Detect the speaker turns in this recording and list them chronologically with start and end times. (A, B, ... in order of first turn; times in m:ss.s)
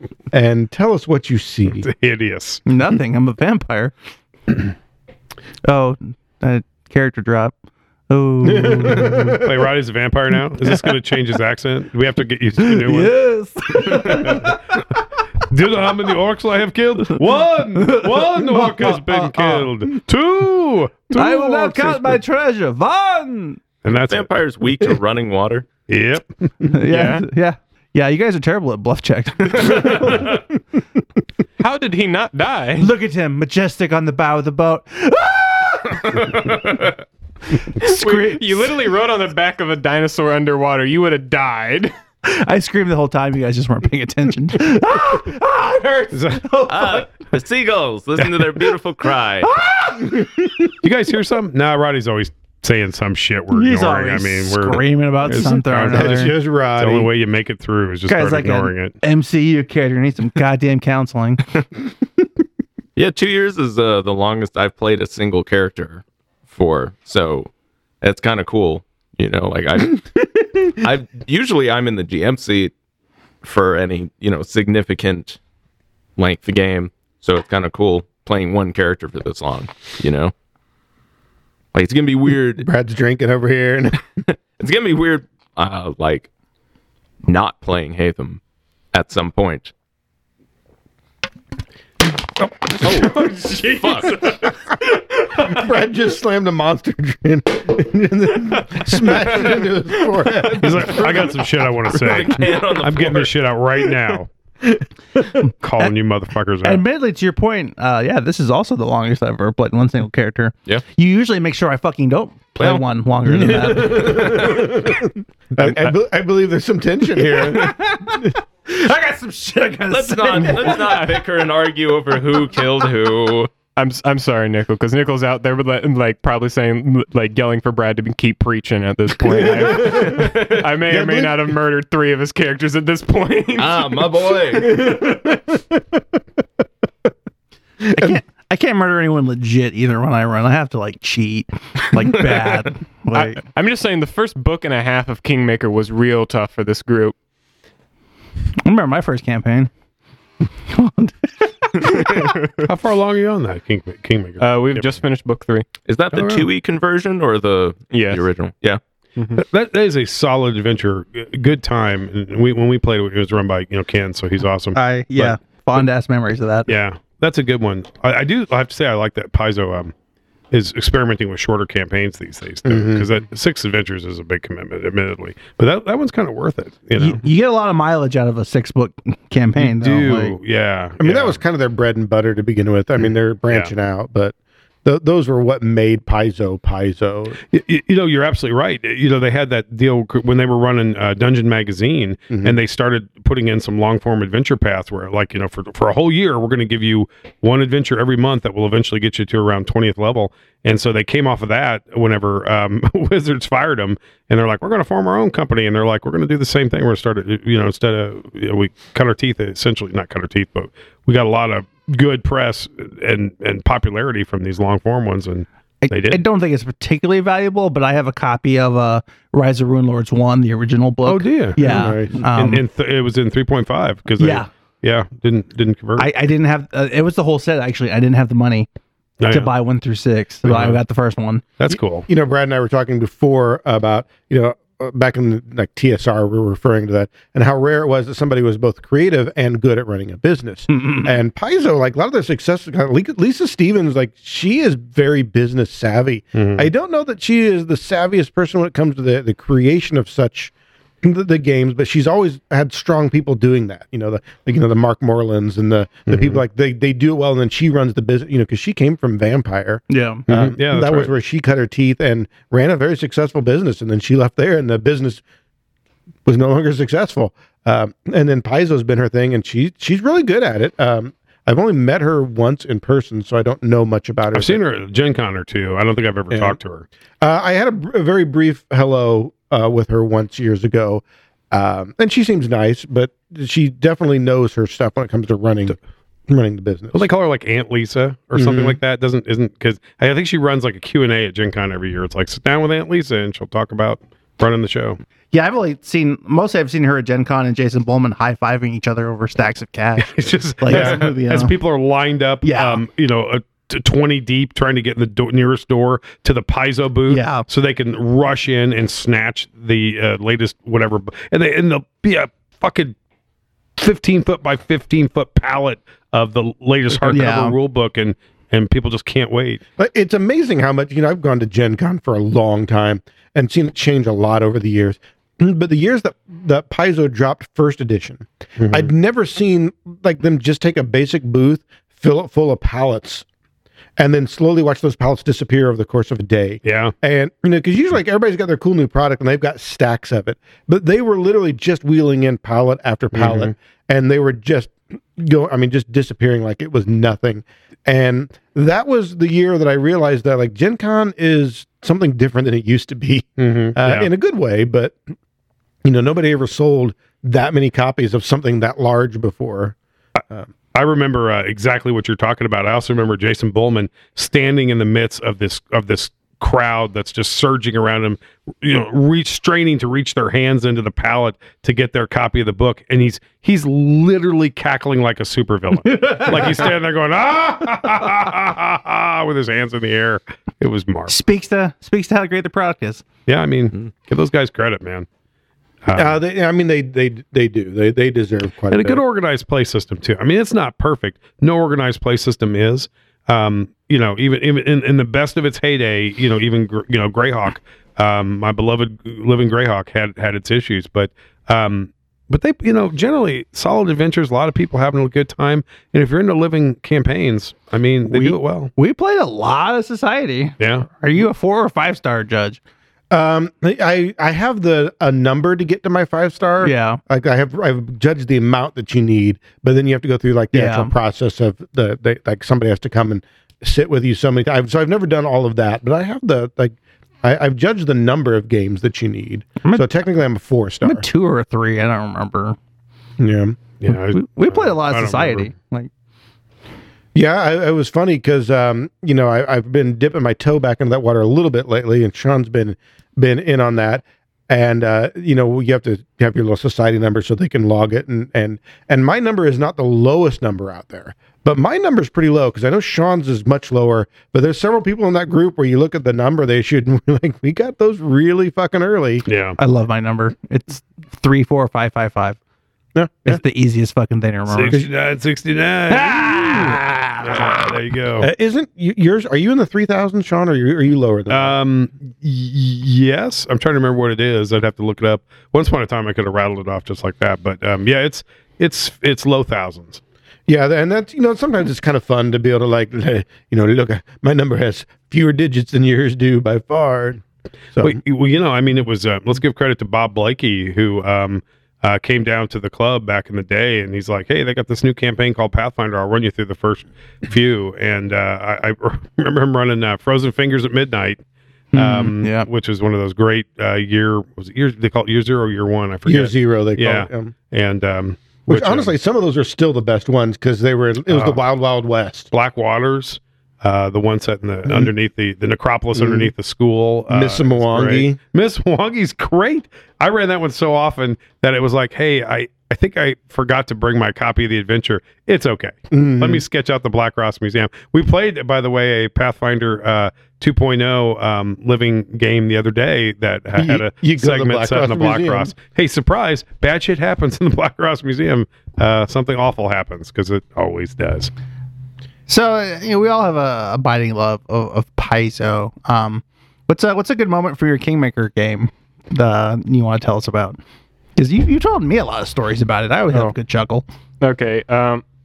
0:00.3-0:01.9 A
0:01.8-0:02.6 B
0:02.6-0:03.9 C
0:05.6-0:07.5 C
0:08.1-0:09.4 C
0:08.4-0:09.5 A
0:09.0-0:13.2 B
0:12.6-0:14.8 C
0:13.9-0:14.5 B
0:15.5-0:22.2 B
0:17.7-0:19.7 C
0:21.1-0:23.6 C
0:23.8-0:24.3 B
0:24.1-0:25.7 D
0:25.9-0:26.8 B
0:26.7-0:30.4 C
0:26.9-0:27.2 E
0:30.1-0:30.4 B
0:31.6-0:32.9 E
0:32.8-0:36.7 C
0:36.1-0:36.8 B
0:37.8-0:38.7 C
0:37.8-0:41.9 E
0:42.2-0:47.1 C
0:46.1-0:46.5 B
0:46.7-0:49.5 D
0:48.2-0:48.5 B
0:49.4-0:50.3 C
0:50.2-0:50.5 A
0:50.8-0:59.0 B
0:53.5-0:56.3 C
0:55.4-0:57.1 A
0:58.1-1:01.6 C
1:03.0-1:07.5 D
1:08.0-1:12.7 D
1:13.4-1:15.4 D
1:16.2-1:20.3 D
1:21.7-1:22.7 D
1:22.6-1:24.0 A
1:24.6-1:26.3 D
1:27.2-1:28.4 D
1:28.9-1:29.7 D
1:32.8-1:34.4 D
1:32.9-1:35.5 E
1:35.3-1:41.3 A
1:40.5-1:44.3 B
1:41.9-1:43.5 D
1:45.6-1:46.8 B
1:46.6-1:54.5 C
1:53.3-1:58.1 A
1:53.7-1:54.8 D
1:57.3-2:01.1 C
1:59.9-2:03.5 D
2:00.3-2:01.2 E
2:03.8-2:14.1 E
2:09.2-2:11.4 A
2:13.6-2:15.0 D
2:14.5-2:16.0 A
2:17.8-2:18.2 A
2:17.9-2:23.4 C
2:23.1-2:27.1 E
2:28.6-2:29.7 C
2:30.7-2:32.3 C
2:32.6-2:34.9 B
2:34.4-2:35.6 E
2:35.9-2:38.8 D
2:36.1-2:36.5 B
2:37.9-2:38.2 E
2:39.2-2:39.4 E
2:39.3-2:45.8 B
2:44.7-2:46.7 C
2:46.7-2:49.9 B
2:50.5-2:57.2 B
2:52.6-2:53.1 A
2:57.0-3:00.4 C
2:59.6-3:01.4 B
3:01.0-3:07.4 A
3:07.5-3:36.2 B
3:12.3-3:12.6 A
3:35.8-3:42.6 C
3:41.0-3:46.1 B
3:41.6-3:42.2 A
3:44.2-3:44.5 C
3:46.0-3:48.7 C
3:49.2-3:49.5 B
3:49.3-3:51.4 C
3:50.4-3:50.8 B
3:51.6-3:52.1 B
3:51.7-4:25.2 A
4:06.3-4:06.7 B
4:16.1-4:16.4 B
4:19.9-4:20.2 C
4:20.3-4:21.1 B
4:26.2-4:34.6 A
4:34.3-4:36.8 B
4:36.3-4:36.6 A
4:37.2-4:45.8 A
4:46.3-4:47.1 A
4:46.9-4:55.0 B
4:48.4-4:48.8 A
4:55.3-5:01.6 C
5:00.0-5:13.0 B
5:02.4-5:02.8 C
5:07.1-5:07.4 C
5:13.8-5:19.6 B
5:17.1-5:17.6 C
5:19.8-5:33.2 A
5:28.6-5:28.9 B
5:34.0-5:55.0 A
5:36.6-5:36.9 B
5:43.1-5:43.5 B
5:53.4-5:54.1 B
5:55.8-5:59.8 A
6:00.7-6:21.1 B
6:15.9-6:16.7 C
6:21.1-6:23.0 C
6:23.2-6:25.1 B
6:25.8-6:26.2 B
6:25.9-6:29.0 A
6:28.7-6:48.7 B
6:48.1-6:52.6 C
6:50.6-6:50.9 B
6:53.1-7:11.0 A
6:56.6-6:57.0 C
7:00.5-7:00.9 C
7:09.6-7:09.9 C
7:10.8-7:12.6 C
7:13.2-7:13.6 A
7:13.8-7:15.5 B
7:13.9-7:15.9 C
7:17.1-7:39.2 A
7:39.2-7:39.6 B
7:39.6-7:42.4 C
7:42.9-7:43.4 A
7:43.2-7:44.8 C
7:44.5-7:48.3 B
7:45.9-7:47.6 C
7:48.2-7:51.6 A
7:51.3-8:00.0 B
8:00.5-8:07.2 A
8:07.8-8:21.2 B
8:21.7-8:22.5 C
8:21.7-8:28.9 B
8:26.0-8:27.3 A
8:28.5-8:32.3 A
8:31.1-8:31.4 B
8:32.3-9:01.3 B
8:36.0-8:36.3 A
8:37.1-8:38.2 A
8:45.9-8:46.4 A
8:53.6-8:55.5 A
9:02.3-9:10.6 C
9:11.2-9:13.8 C
9:14.2-9:15.0 E